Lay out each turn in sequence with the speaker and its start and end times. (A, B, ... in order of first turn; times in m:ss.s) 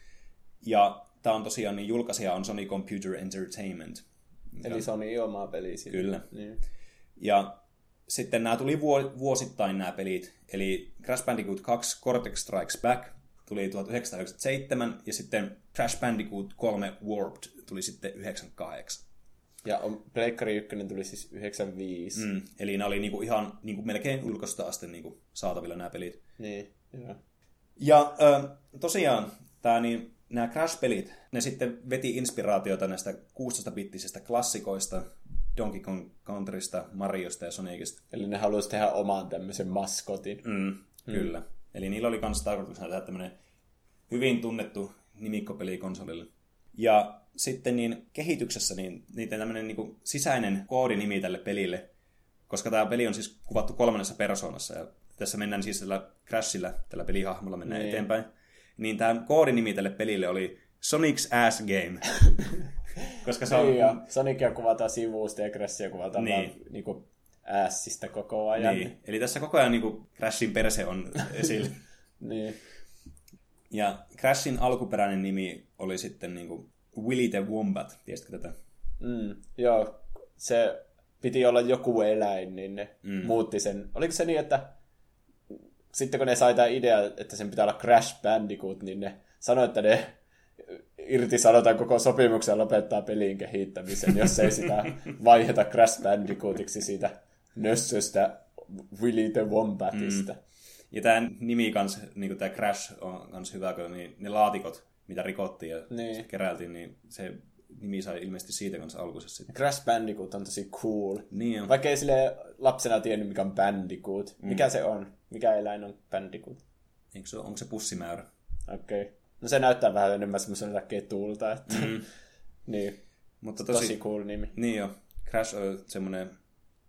0:00.6-0:04.9 A
0:04.6-0:06.6 B
0:05.9-0:06.3 A
0:07.2-0:19.0 A
0:19.6-0:22.3 B
0:22.2-0:26.2 A
0:26.4-0:27.2 B
0:27.8-0:38.0 A
0:38.1-0:40.4 B
0:40.4-0:43.4 A
0:44.1-0:51.9 A
0:52.5-1:02.3 A
0:57.7-0:58.1 B
1:03.1-1:04.0 A
1:03.5-1:09.0 B
1:06.2-1:06.6 A
1:08.6-1:11.8 A
1:12.2-1:12.6 B
1:13.7-1:18.6 A
1:19.0-1:24.8 B
1:23.0-1:23.3 A
1:25.9-1:40.4 B
1:39.9-1:40.3 A
1:40.9-1:49.5 A
1:45.9-1:46.3 B
1:49.5-1:56.6 B
1:51.3-1:51.7 A
1:57.1-1:58.3 A
1:58.7-2:02.1 B
2:01.7-2:02.0 A
2:02.7-2:03.0 B
2:03.4-2:04.0 A
2:03.6-2:04.6 B
2:04.5-2:06.3 A